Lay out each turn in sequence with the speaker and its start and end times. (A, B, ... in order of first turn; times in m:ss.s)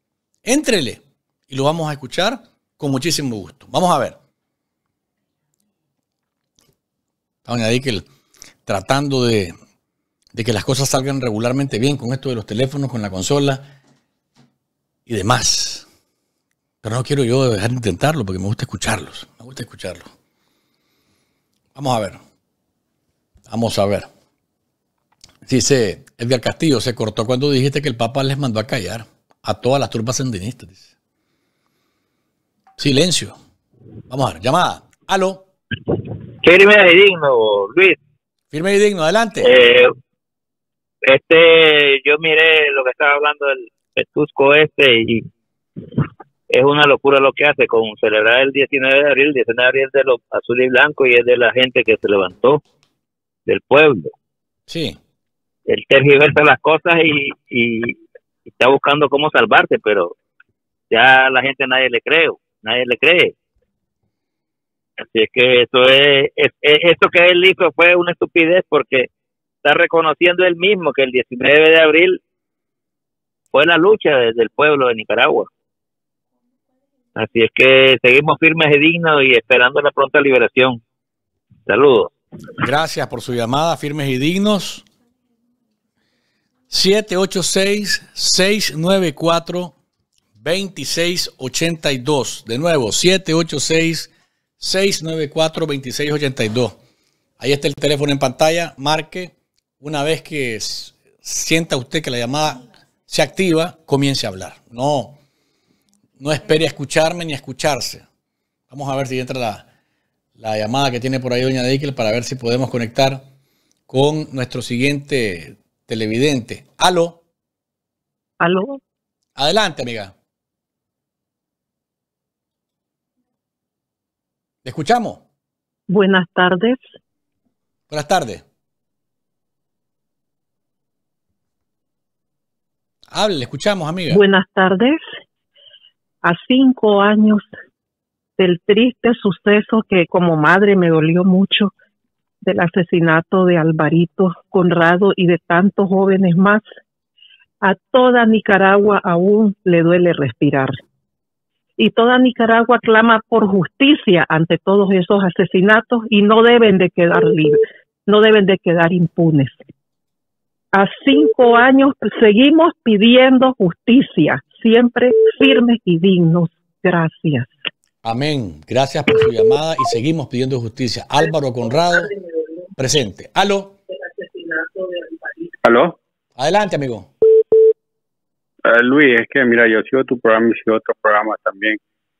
0:00.4-0:04.2 A
0:07.4-0:08.0 A
0:08.6-0:09.5 A
0:10.3-0:13.7 A
0:15.1-0:15.8 A
0:16.8-0:20.1 A
0:21.7-0:22.2 A
0:23.5-0:24.1 A
0:25.4-0:30.9 A
0:32.8-0:33.4 A
0:34.1-0:35.4 A
0:36.4-0:38.0 B
0:38.5-0:39.6 A
0:39.4-0:39.9 B
0:41.0-0:45.2 B
0:46.5-0:52.6 B
0:53.5-0:54.1 B
0:54.7-0:55.0 A
0:55.7-0:57.9 B
0:58.6-1:00.1 B
1:00.9-1:03.3 B
1:05.0-1:09.1 B
1:09.6-1:12.2 B
1:13.5-1:15.5 B
1:17.2-1:20.8 B
1:21.7-1:22.1 B
1:22.6-1:24.8 A
1:26.7-1:29.7 A
1:30.4-1:36.8 A
1:37.4-1:45.2 A
1:46.2-1:48.0 A
1:48.7-1:49.6 A
1:50.4-1:53.2 A
1:53.9-1:57.2 A
1:58.4-1:58.8 C
1:59.4-2:00.1 A
2:04.6-2:05.2 A
2:05.9-2:06.8 C
2:07.9-2:08.4 A
2:13.1-2:14.2 A
2:14.1-2:15.0 C
2:16.2-2:17.5 C
2:18.4-2:21.7 C
2:22.4-2:26.6 C
2:27.6-2:30.8 C
2:31.8-2:39.6 C
2:40.7-2:47.5 C
2:48.0-2:52.1 A
2:52.8-2:53.8 A
2:55.6-2:56.0 D
2:56.4-2:57.1 A
2:58.6-3:01.8 D